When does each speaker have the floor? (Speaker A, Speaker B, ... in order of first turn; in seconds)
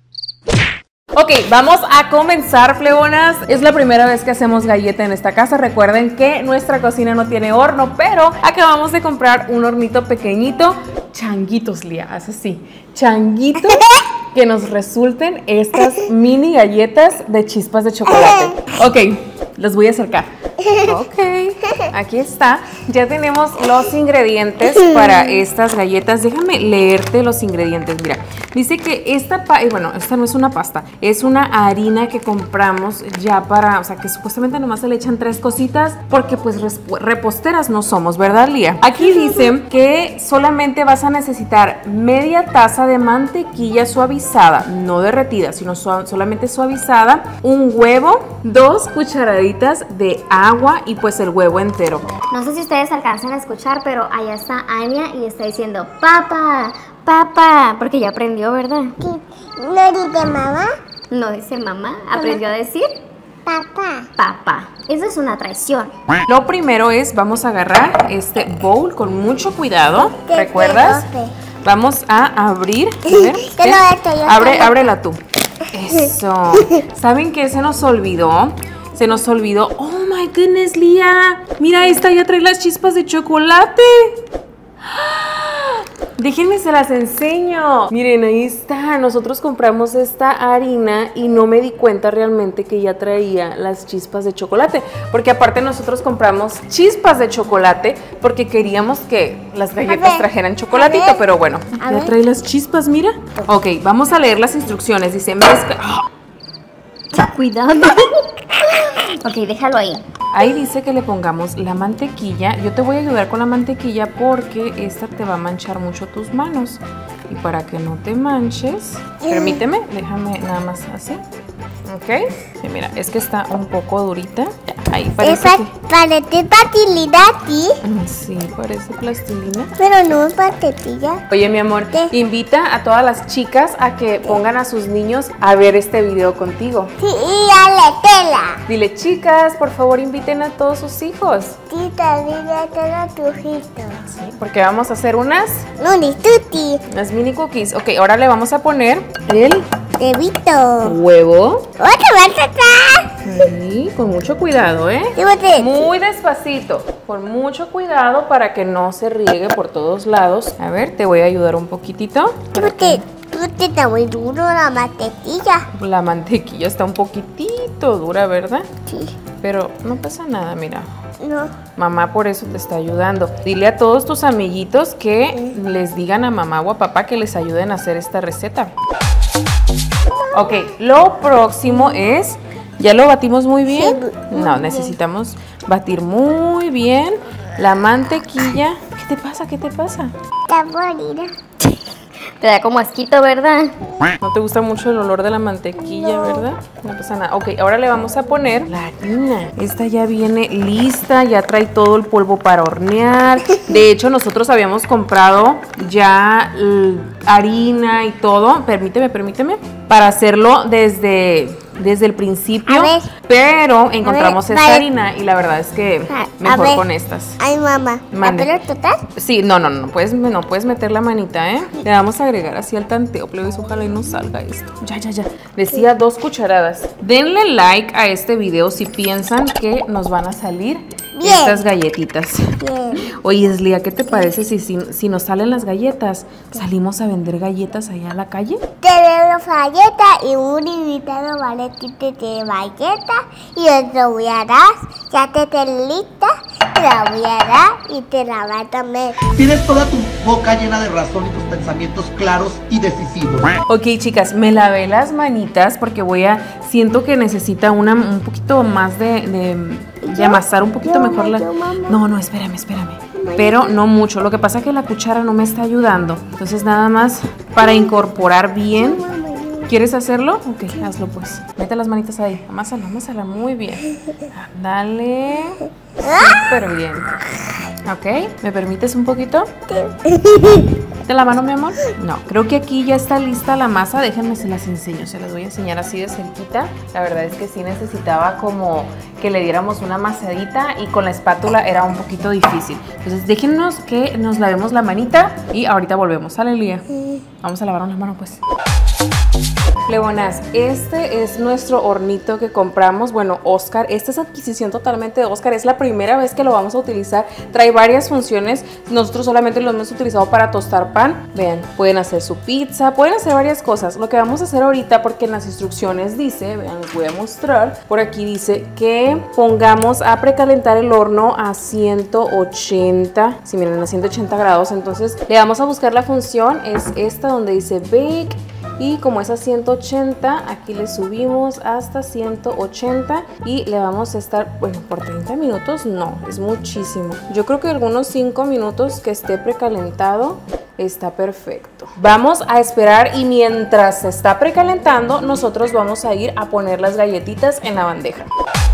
Speaker A: 1.1-52.1, 66.3-71.0, 71.6-75.2, 75.7-84.2, 84.8-106.1, 110.3-121.2, 121.9-125.7, 127.8-129.7, 131.3-136.9, 138.7-141.6, 144.1-145.7, 146.9-149.7, 150.8-151.7, 153.2-163.0, 165.7-168.7, 169.4-170.9, 171.8-178.7, 180.3-190.1, 194.2-217.4, 218.1-218.6, 219.2-238.6, 253.7-269.0, 269.7-277.1, 277.9-279.5, 281.0-296.9, 297.4-298.4, 299.9-348.3
Speaker B: 18.1-18.6, 20.6-20.9, 24.6-25.4, 39.0-39.5, 59.0-60.7, 62.1-62.4, 63.5-64.1, 70.0-71.3, 73.1-74.8, 99.8-101.3, 101.8-102.2, 119.2-119.6, 125.2-127.8, 129.8-131.2, 137.0-138.6, 141.7-144.1, 145.8-146.8, 150.0-150.9, 151.8-153.1, 155.2-155.9, 162.6-165.7, 168.9-169.1, 171.2-171.6, 183.7-185.0, 190.5-191.3, 212.7-213.1, 214.0-214.9, 216.1-216.8, 217.4-219.0, 231.2-231.6, 232.6-233.1, 238.8-249.2, 260.1-262.0, 263.1-263.8, 267.6-268.0, 268.7-269.7, 276.0-276.4, 279.7-280.8
Speaker C: 52.3-59.0, 61.1-62.9, 64.2-65.9, 107.1-108.3, 109.2-110.0, 192.4-193.7
Speaker D: 249.3-253.6